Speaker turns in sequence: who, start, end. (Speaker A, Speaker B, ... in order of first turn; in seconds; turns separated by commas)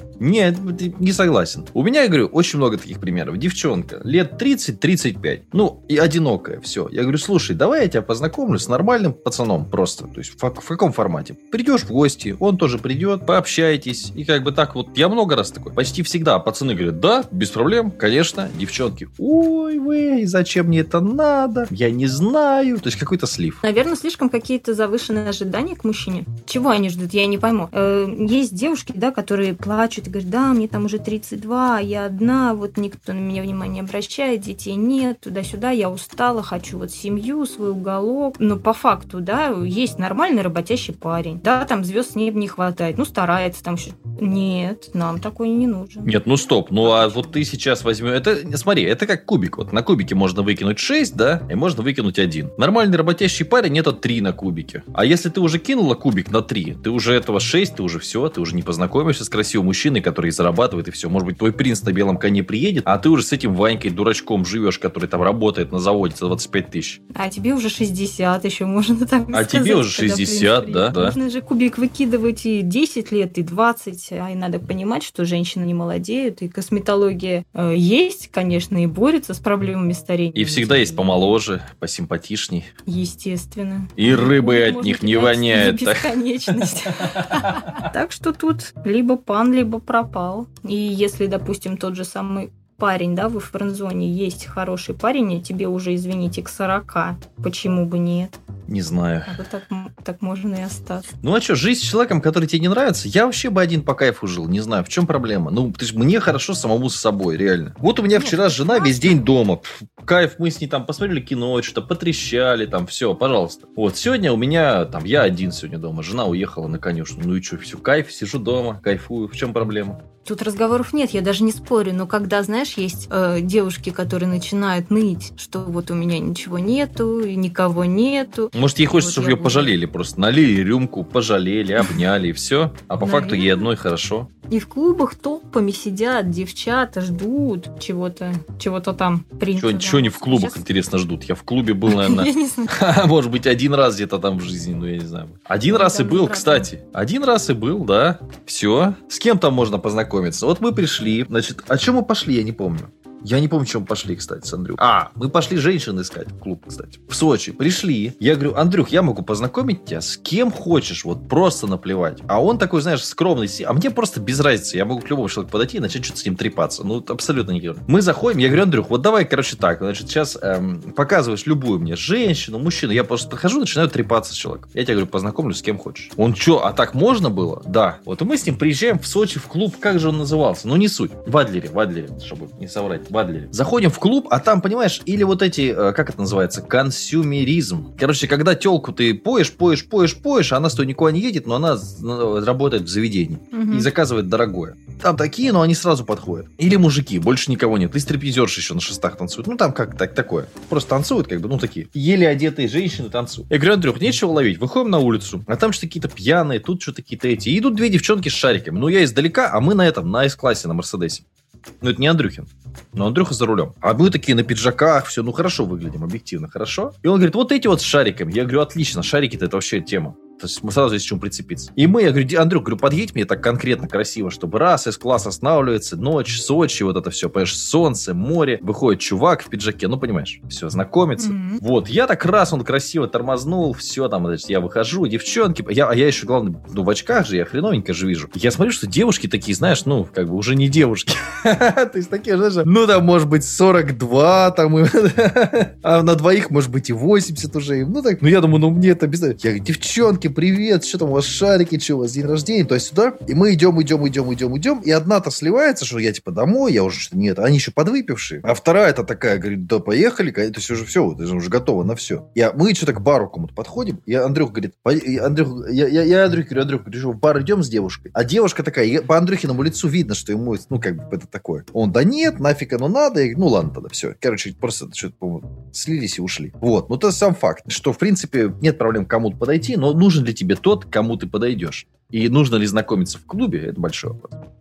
Speaker A: 0.2-23.6, Speaker B: 23.6-46.1, Speaker A: 46.0-67.0, Speaker B: 46.8-47.4, Speaker B: 67.1-81.1, Speaker A: 69.3-71.2, Speaker A: 80.3-82.7, Speaker B: 82.8-98.3, Speaker A: 84.0-87.8, Speaker A: 98.7-99.4, Speaker B: 99.3-101.1, Speaker A: 101.2-120.0, Speaker B: 108.2-109.2, Speaker B: 120.2-129.8, Speaker A: 128.5-134.3, Speaker B: 133.0-133.7, Speaker B: 134.5-140.6, Speaker A: 139.6-211.2, Speaker B: 141.8-142.9, Speaker B: 145.7-146.7, Speaker B: 193.5-193.9, Speaker A: 211.8-284.4, Speaker B: 231.2-231.6